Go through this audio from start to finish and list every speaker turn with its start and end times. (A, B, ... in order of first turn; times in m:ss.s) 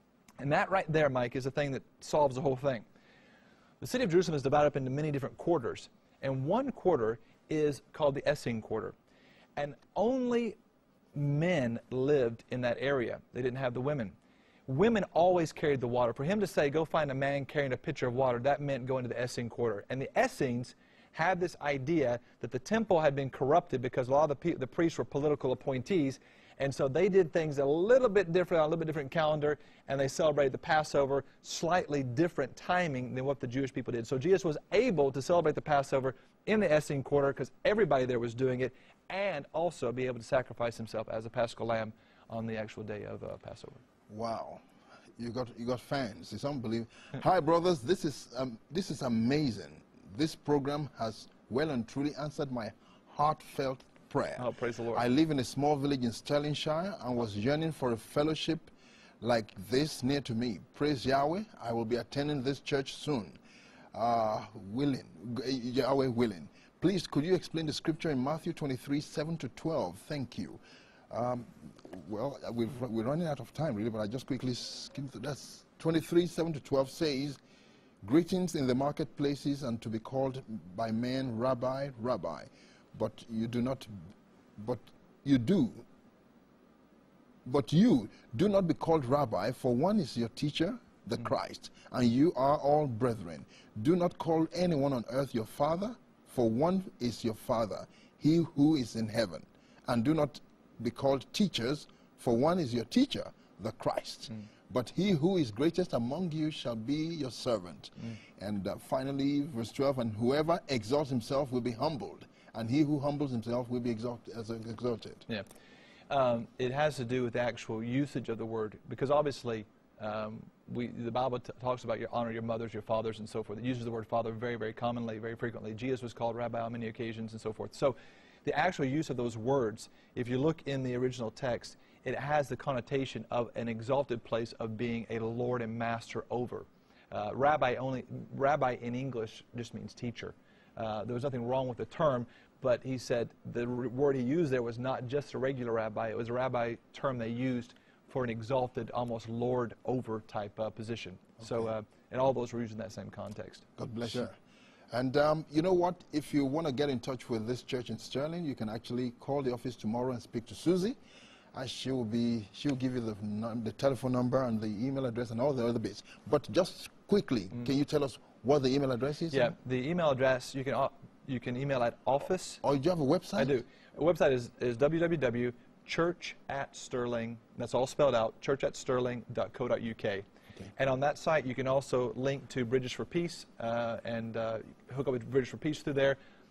0:00.4-0:02.8 A
0:03.8-0:08.9 A
0:09.6-0:10.6 A
0:11.1-0:14.2 A
0:14.7-0:43.8 A
0:44.1-0:44.6 B
0:45.2-1:03.4 B
0:54.4-0:55.0 A
1:03.9-1:17.4 B
1:18.0-1:23.9 B
1:24.6-1:25.8 B
1:27.4-1:55.2 B
1:56.1-2:34.3 A
2:33.8-2:34.3 B
2:34.9-2:41.0 B
2:41.5-2:49.5 B
2:49.3-2:52.6 A
2:52.6-2:53.5 B
2:53.4-3:00.2 A
3:00.8-3:06.2 A